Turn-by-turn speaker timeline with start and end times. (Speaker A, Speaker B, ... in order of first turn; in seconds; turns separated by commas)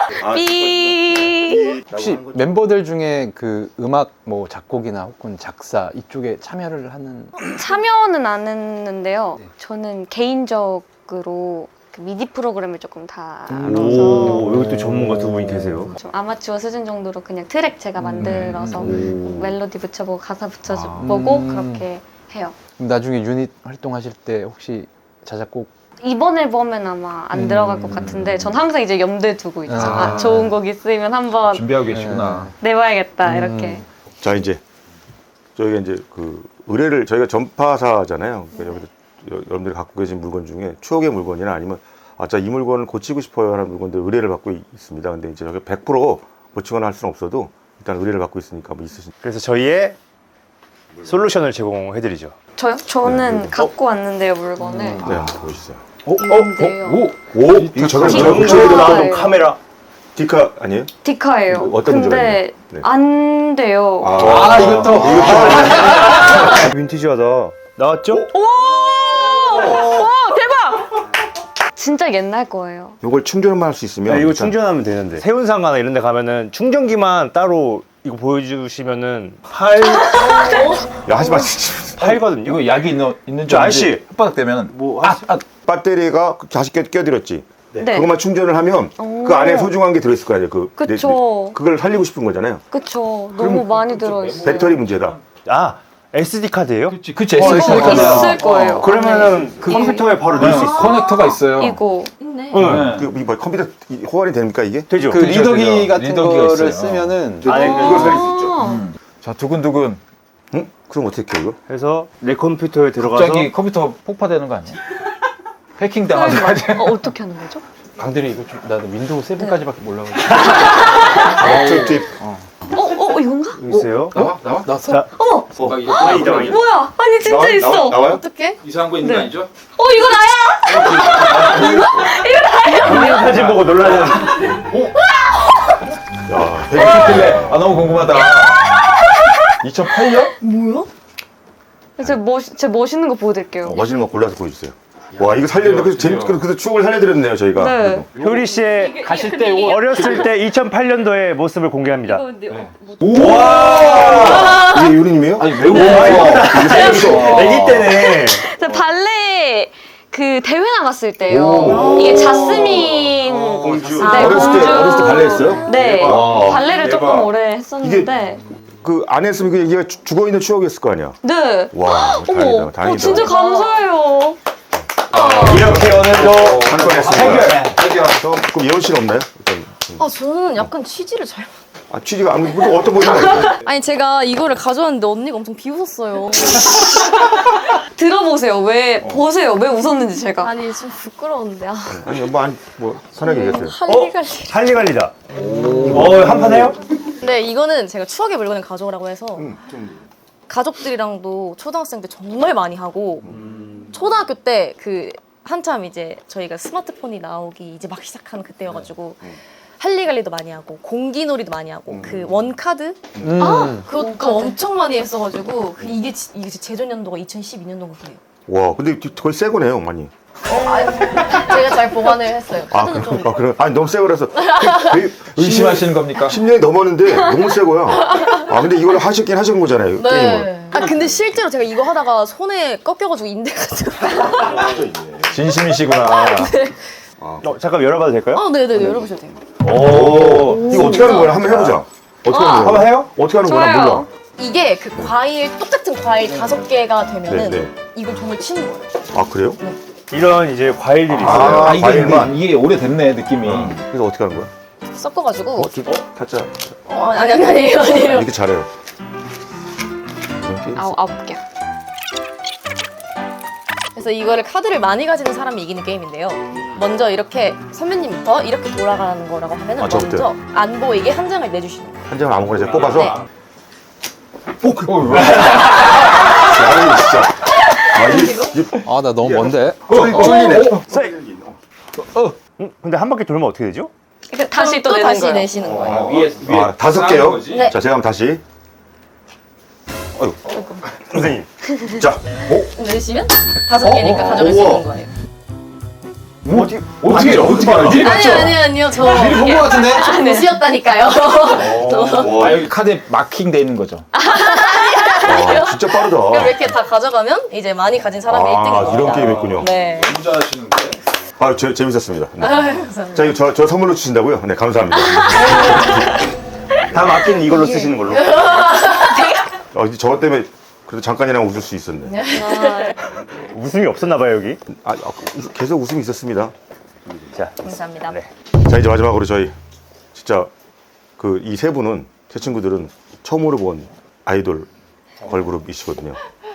Speaker A: 0.1-1.8, Speaker B: 0.1-2.6, Speaker C: 1.9-7.5, Speaker A: 7.5-14.5, Speaker D: 13.6-15.9, Speaker C: 13.6-15.0, Speaker A: 15.9-22.6, Speaker C: 18.0-19.0, Speaker E: 18.2-18.7, Speaker D: 18.8-19.5, Speaker E: 20.7-21.2, Speaker C: 21.0-21.9, Speaker C: 22.8-25.7, Speaker A: 26.0-31.8, Speaker C: 27.3-28.6, Speaker C: 29.7-30.5, Speaker E: 29.7-30.6, Speaker E: 31.5-32.5, Speaker C: 31.9-32.5, Speaker A: 32.6-33.9, Speaker C: 33.2-33.9, Speaker B: 34.2-34.6, Speaker B: 35.6-49.1, Speaker D: 49.2-50.0, Speaker D: 51.0-52.4, Speaker A: 52.6-55.0, Speaker B: 53.0-53.6, Speaker B: 55.0-55.9, Speaker E: 56.1-58.6, Speaker A: 56.2-57.1, Speaker B: 57.3-59.1, Speaker A: 58.0-59.4, Speaker D: 58.3-59.6, Speaker B: 60.1-60.9, Speaker A: 61.0-64.5, Speaker B: 61.5-62.9, Speaker B: 64.0-66.5, Speaker C: 64.2-65.5, Speaker D: 64.5-68.3, Speaker A: 68.3-70.7, Speaker F: 69.3-70.4, Speaker D: 69.6-70.1, Speaker A: 71.8-73.0, Speaker B: 73.0-74.5, Speaker D: 74.1-80.6, Speaker F: 80.2-80.8, Speaker A: 80.4-80.7, Speaker B: 81.0-82.2, Speaker D: 82.0-82.7, Speaker E: 82.4-85.4, Speaker D: 83.5-84.0, Speaker D: 84.7-85.3, Speaker B: 85.6-92.6, Speaker A: 87.8-88.1, Speaker A: 89.0-89.8, Speaker A: 90.8-91.6, Speaker A: 92.7-94.8, Speaker E: 93.4-95.2, Speaker B: 94.4-95.2, Speaker D: 95.5-97.0, Speaker E: 96.9-98.7, Speaker A: 97.3-102.1, Speaker C: 97.4-98.8, Speaker D: 98.7-101.0, Speaker E: 99.6-101.8, Speaker F: 102.2-102.6, Speaker D: 102.5-102.9, Speaker E: 102.6-103.1, Speaker B: 102.6-104.9, Speaker D: 104.9-105.2, Speaker C: 105.1-108.0, Speaker E: 105.2-107.3, Speaker D: 107.4-108.2, Speaker B: 107.5-108.6, Speaker A: 107.6-108.9, Speaker E: 108.5-110.0, Speaker B: 110.5-111.6, Speaker D: 111.7-113.5, Speaker E: 113.0-114.8, Speaker E: 115.8-117.1, Speaker A: 116.1-117.6, Speaker C: 118.0-122.4, Speaker D: 120.4-121.7, Speaker E: 121.5-122.0, Speaker A: 122.7-123.7, Speaker D: 123.6-124.2, Speaker E: 124.1-124.8, Speaker C: 124.2-125.0, Speaker D: 124.8-125.1, Speaker A: 125.1-128.1, Speaker B: 125.6-125.9, Speaker E: 125.6-126.6, Speaker D: 125.9-126.6, Speaker B: 127.2-128.2, Speaker F: 127.9-128.6, Speaker E: 128.6-129.5, Speaker A: 129.0-133.4, Speaker E: 130.8-131.8, Speaker D: 132.8-134.6, Speaker E: 133.3-134.9, Speaker B: 136.3-137.7, Speaker E: 136.7-138.8, Speaker E: 139.6-140.3, Speaker F: 140.4-140.9, Speaker A: 142.0-143.9, Speaker B: 143.6-148.1, Speaker E: 145.5-146.4, Speaker A: 147.6-150.3, Speaker E: 148.2-150.2, Speaker D: 148.2-149.0, Speaker D: 149.6-152.3, Speaker A: 152.1-153.8, Speaker E: 152.5-154.6, Speaker D: 153.1-154.6, Speaker B: 153.8-157.7, Speaker E: 155.4-157.8, Speaker D: 155.6-158.4, Speaker A: 156.6-168.4, Speaker B: 161.3-162.2, Speaker D: 161.4-161.9, Speaker F: 161.6-162.8, Speaker D: 163.3-164.1, Speaker B: 163.6-166.8, Speaker F: 163.9-165.8, Speaker D: 165.9-166.2, Speaker E: 166.1-167.3, Speaker B: 167.8-168.2, Speaker B: 168.8-173.3, Speaker A: 171.2-174.4, Speaker F: 172.9-173.9, Speaker D: 175.1-177.9, Speaker A: 175.2-175.6, Speaker F: 175.2-175.6, Speaker E: 175.3-178.2, Speaker B: 175.6-180.1, Speaker F: 180.0-181.5, Speaker B: 181.9-183.6, Speaker F: 183.5-187.1, Speaker A: 187.9-190.6, Speaker B: 189.0-189.3, Speaker F: 190.4-192.2, Speaker B: 191.9-193.8, Speaker F: 193.2-194.7, Speaker D: 193.8-195.2, Speaker B: 195.6-196.7, Speaker D: 195.8-196.8, Speaker F: 197.2-199.6, Speaker B: 199.4-200.0, Speaker F: 200.5-203.3, Speaker F: 203.9-218.2, Speaker B: 211.9-212.5, Speaker B: 213.2-213.5, Speaker C: 213.2-213.8, Speaker A: 213.9-214.6, Speaker B: 218.5-220.1, Speaker F: 220.5-223.5, Speaker B: 222.7-230.6, Speaker F: 224.4-225.0, Speaker E: 225.2-226.4, Speaker F: 228.1-228.4, Speaker F: 230.0-234.7, Speaker B: 234.5-235.4, Speaker E: 235.3-236.6, Speaker F: 235.9-236.8, Speaker B: 237.2-237.5, Speaker D: 237.4-238.4, Speaker F: 238.3-239.4, Speaker D: 239.6-241.8, Speaker B: 239.6-244.1, Speaker F: 240.5-241.5, Speaker A: 242.3-242.8, Speaker D: 242.3-243.1, Speaker A: 243.4-244.1, Speaker F: 244.4-249.0, Speaker B: 247.3-247.7, Speaker B: 249.1-249.6, Speaker D: 250.1-251.8, Speaker B: 251.1-252.4, Speaker E: 251.2-253.8, Speaker B: 253.4-254.5, Speaker F: 254.9-255.7, Speaker B: 255.5-256.7, Speaker F: 256.9-258.3, Speaker B: 257.7-258.7, Speaker B: 260.4-261.0, Speaker A: 260.8-261.4, Speaker F: 263.9-272.2, Speaker B: 269.8-270.3, Speaker B: 272.1-273.2, Speaker F: 272.8-273.2, Speaker B: 274.6-275.5, Speaker E: 274.8-276.1, Speaker B: 276.4-277.4, Speaker B: 277.9-281.6, Speaker F: 278.0-278.5, Speaker C: 278.8-280.3, Speaker E: 279.9-280.8, Speaker D: 280.9-281.1, Speaker E: 282.0-282.3, Speaker D: 282.4-283.9, Speaker A: 284.3-285.5, Speaker F: 284.5-286.1, Speaker B: 285.6-288.4, Speaker E: 285.8-287.7, Speaker B: 290.1-290.6, Speaker A: 290.5-290.8, Speaker D: 291.1-291.5, Speaker B: 291.8-292.6, Speaker F: 292.5-295.1, Speaker B: 293.8-294.8, Speaker E: 293.9-294.5, Speaker E: 296.4-300.3, Speaker D: 296.5-296.9, Speaker B: 297.1-298.0, Speaker F: 297.3-302.5, Speaker A: 299.3-300.6, Speaker B: 301.7-302.6, Speaker E: 302.0-304.1, Speaker A: 304.2-304.7, Speaker F: 304.2-310.2, Speaker B: 305.2-306.6, Speaker B: 308.3-309.7, Speaker E: 308.7-311.0, Speaker B: 311.4-316.1, Speaker F: 312.4-313.4, Speaker F: 315.2-316.0, Speaker D: 316.9-318.4, Speaker B: 316.9-317.3, Speaker F: 317.9-319.4, Speaker B: 319.7-322.2, Speaker F: 322.1-322.9, Speaker A: 322.3-323.0, Speaker D: 323.4-324.6, Speaker B: 324.7-326.5, Speaker D: 327.3-328.3, Speaker F: 327.6-328.2, Speaker B: 328.6-329.6, Speaker B: 330.1-330.5, Speaker B: 331.2-334.7, Speaker B: 335.2-336.2